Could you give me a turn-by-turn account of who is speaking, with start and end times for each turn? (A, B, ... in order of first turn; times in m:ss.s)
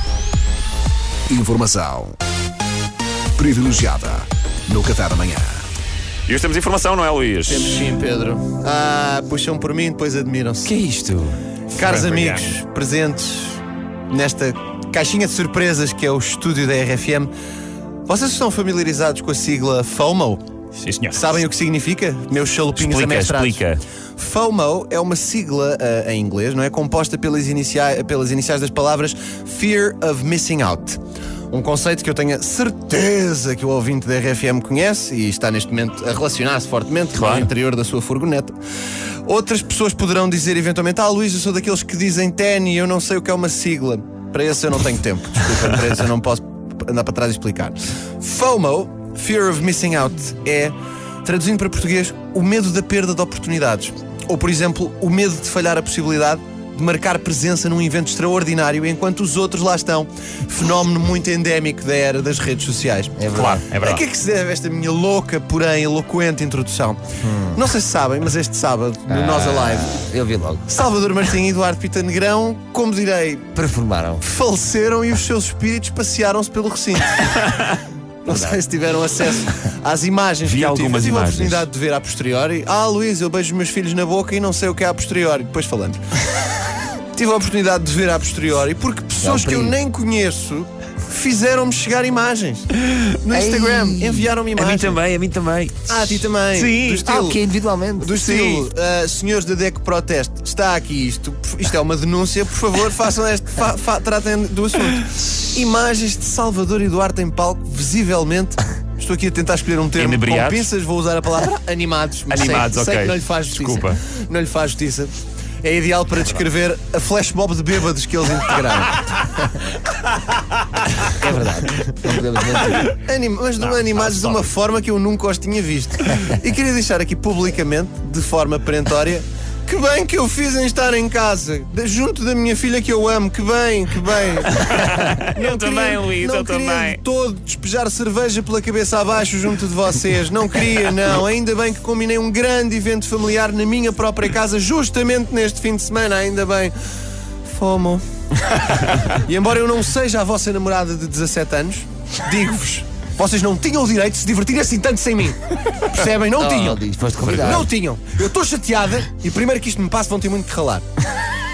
0:01.3-0:02.2 A
0:01.4-0:02.0 B
0:03.4-0:05.6 A
0:06.3-0:07.8 C
0:07.4-0:10.7 B
0:10.7-0:11.0 C
0:10.9-0:11.3 D
0:11.7-0:17.3 B
0:11.7-0:12.5 C
0:18.1-0:20.4 B
0:20.8-0:21.4 C
0:21.1-0:23.6 B
0:22.8-0:23.8 C
0:24.2-0:31.0 B
0:31.5-0:38.5 B
0:37.1-0:37.5 C
0:39.2-1:07.0 B
1:03.2-1:03.6 D
1:03.3-1:04.0 C
1:07.2-1:07.5 D
1:07.5-1:10.1 B
1:09.1-1:10.6 D
1:10.7-1:13.5 B
1:13.5-1:14.2 D
1:14.2-1:17.5 B
1:18.2-1:26.0 B
1:18.3-1:18.6 D
1:20.4-1:21.7 C
1:27.1-1:32.7 B
1:29.2-1:29.8 D
1:33.2-1:35.0 B
1:33.3-1:35.7 D
1:34.6-1:35.7 C
1:35.9-1:37.4 B
1:36.5-1:37.0 C
1:36.8-1:38.6 D
1:38.0-1:59.6 B
1:50.0-1:50.7 C
1:52.3-1:54.0 C
2:01.1-2:02.9 D
2:02.8-2:26.7 B
2:03.9-2:04.5 C
2:14.6-2:17.0 C
2:27.4-2:40.8 B
2:36.4-2:37.7 D
2:37.2-2:37.6 C